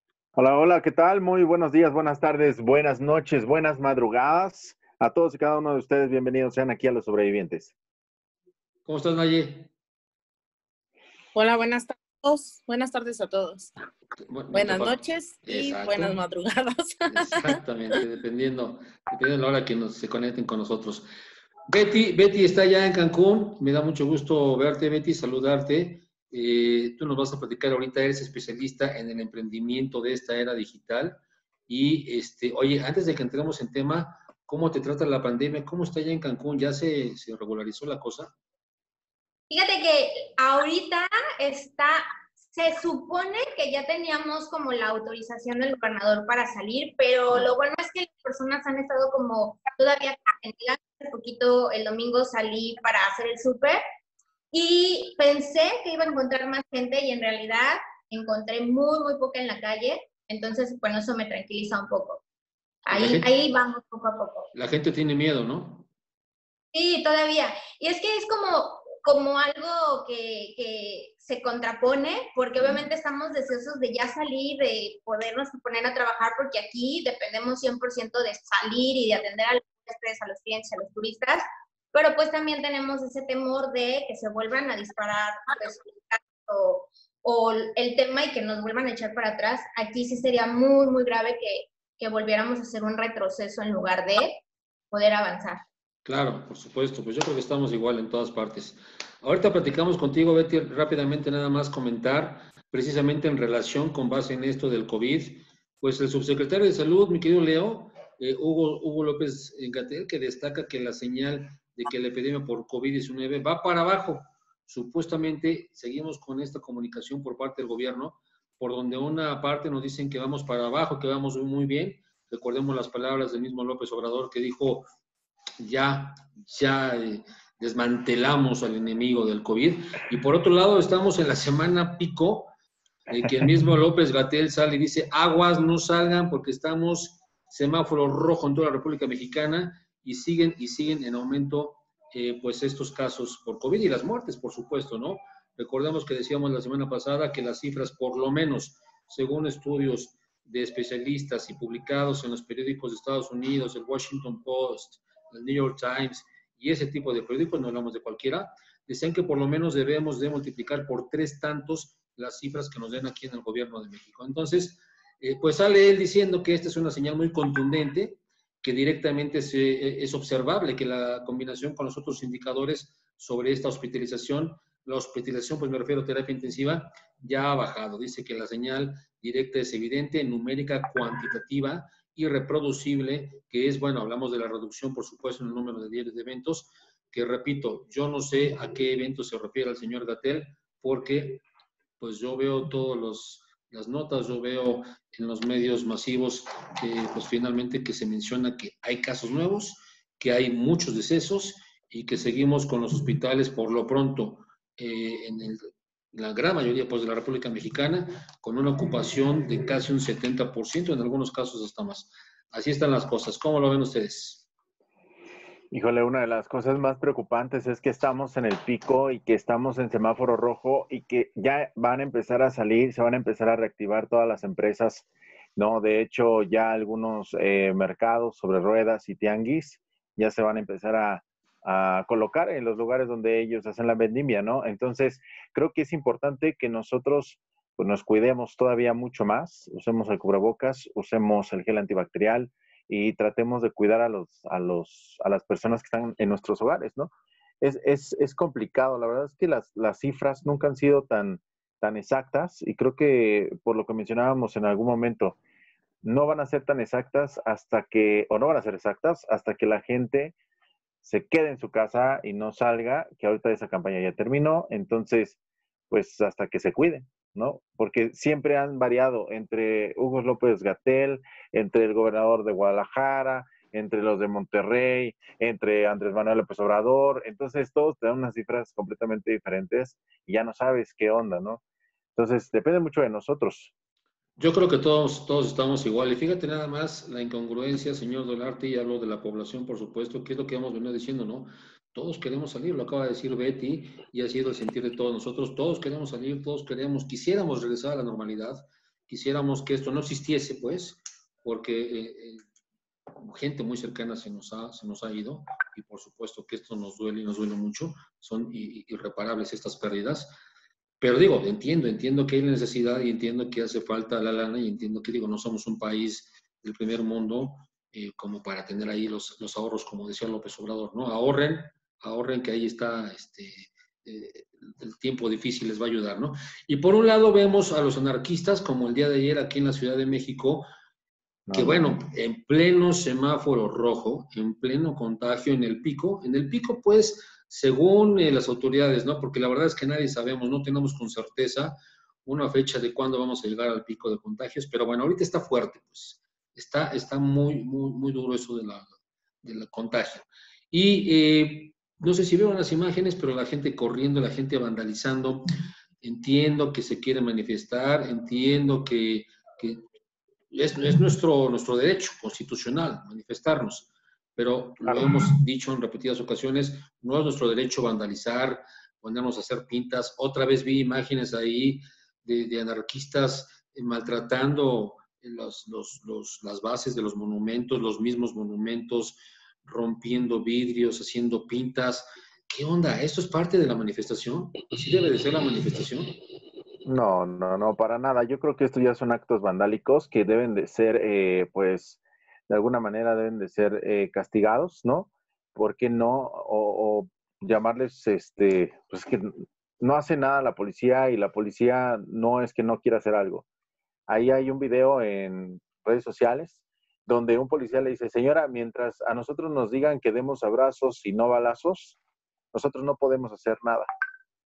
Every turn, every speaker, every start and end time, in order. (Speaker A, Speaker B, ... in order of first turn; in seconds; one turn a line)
Speaker A: 0.3-7.7
Speaker B: 8.8-9.7
Speaker C: 11.3-13.7
Speaker B: 14.3-16.2
Speaker C: 14.5-17.6
Speaker B: 17.1-21.1
Speaker B: 21.7-38.3
Speaker D: 39.5-53.8
Speaker D: 54.5-62.2
Speaker D: 62.9-64.5
Speaker B: 62.9-63.3
Speaker B: 64.5-65.9
Speaker D: 66.7-95.6
Speaker B: 72.6-72.8
Speaker B: 96.0-124.9
Speaker B: 125.6-132.5
Speaker B: 133.1-191.4
Speaker B: 192.0-214.5
Speaker A: 215.7-247.1
Speaker A: 247.6-255.4
Speaker A: 256.0-260.3
Speaker A: 261.0-265.4
Speaker A: 265.9-281.6
Speaker A: 282.1-283.7
Speaker B: 284.4-302.4
Speaker B: 303.2-310.3
Speaker B: 311.0-330.7
Speaker A: 331.5-332.0
Speaker B: 331.5-348.9
Speaker B: 349.4-355.4
Speaker B: 356.0-359.8
Speaker B: 360.5-386.2
Speaker A: 364.8-365.1
Speaker A: 386.8-403.4
Speaker A: 404.1-412.0
Speaker A: 412.5-413.9